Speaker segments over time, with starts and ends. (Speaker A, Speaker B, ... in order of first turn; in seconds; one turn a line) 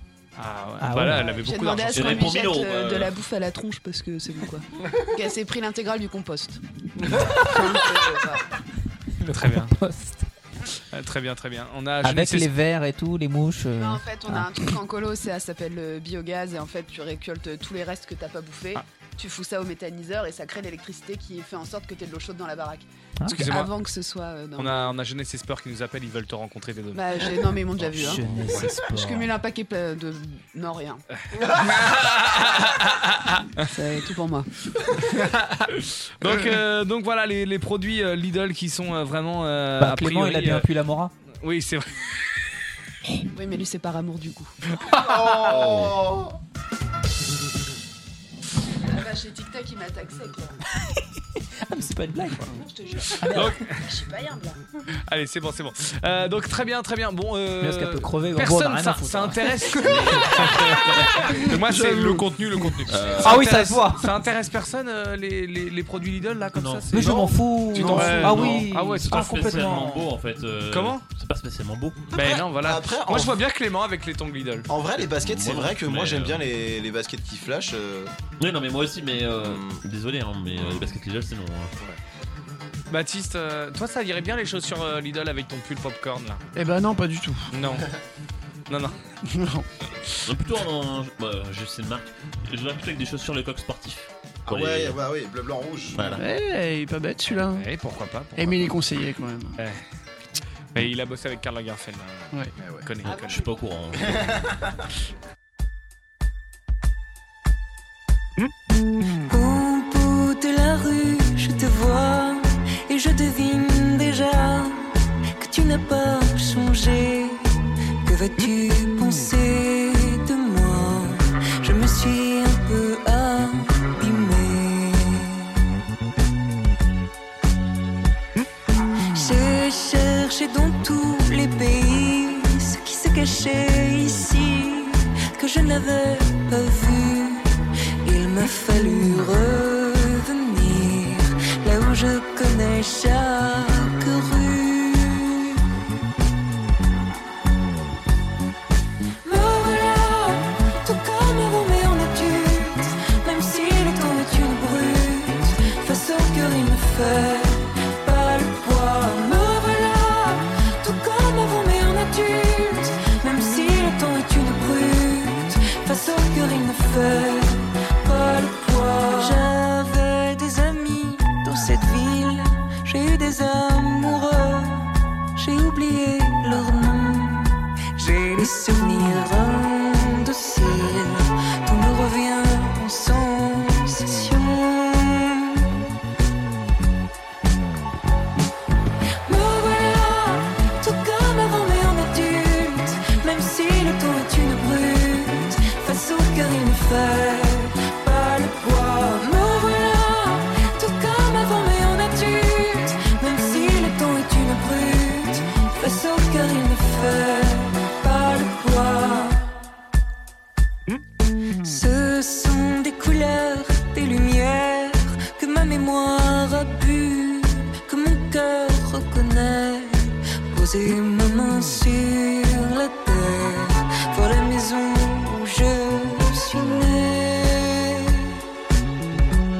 Speaker A: 0.4-2.3
Speaker B: 0.8-1.3
Speaker C: 1.2-6.6
Speaker D: 1.9-3.1
Speaker C: 7.2-8.5
Speaker A: 9.2-9.7
Speaker B: 9.3-10.2
Speaker A: 10.9-12.5
Speaker B: 12.0-14.5
Speaker C: 13.8-22.9
Speaker B: 23.2-23.4
Speaker A: 23.3-23.7
Speaker C: 23.4-25.0
Speaker A: 24.6-27.1
Speaker C: 26.9-31.0
Speaker B: 27.9-29.3
Speaker A: 28.1-28.6
Speaker A: 31.4-33.7
Speaker C: 33.7-34.5
Speaker A: 35.0-40.7
Speaker B: 39.8-41.1
Speaker A: 41.4-41.9
Speaker C: 43.3-45.4
Speaker E: 45.0-46.4
Speaker C: 48.9-50.6
Speaker B: 51.6-52.5
Speaker C: 52.5-54.6
Speaker B: 53.2-53.5
Speaker A: 53.3-53.9
Speaker A: 55.1-67.2
Speaker B: 57.6-59.7
Speaker F: 61.1-62.8
Speaker D: 62.9-63.4
Speaker B: 63.2-64.0
Speaker D: 66.5-66.8
Speaker B: 66.9-70.0
Speaker E: 67.0-68.3
Speaker A: 67.8-69.8
Speaker F: 67.8-68.6
Speaker D: 69.1-72.0
Speaker A: 70.7-71.0
Speaker E: 72.1-73.4
Speaker A: 72.1-74.7
Speaker E: 74.7-78.1
Speaker D: 75.1-76.4
Speaker D: 78.4-81.7
Speaker E: 79.4-79.8
Speaker A: 82.9-86.4
Speaker F: 86.5-87.5
Speaker A: 87.5-87.9
Speaker A: 88.7-88.9
Speaker F: 89.3-89.7
Speaker D: 90.2-95.0
Speaker E: 94.5-96.1
Speaker D: 96.0-96.2
Speaker F: 96.0-97.7
Speaker A: 97.3-98.7
Speaker F: 98.4-99.6
Speaker A: 100.7-102.1
Speaker E: 102.6-102.8
Speaker A: 102.8-103.5
Speaker D: 103.1-104.5
Speaker G: 109.2-125.5
Speaker G: 129.1-145.6
Speaker G: 149.2-185.7
Speaker G: 189.2-209.5
Speaker G: 211.6-228.4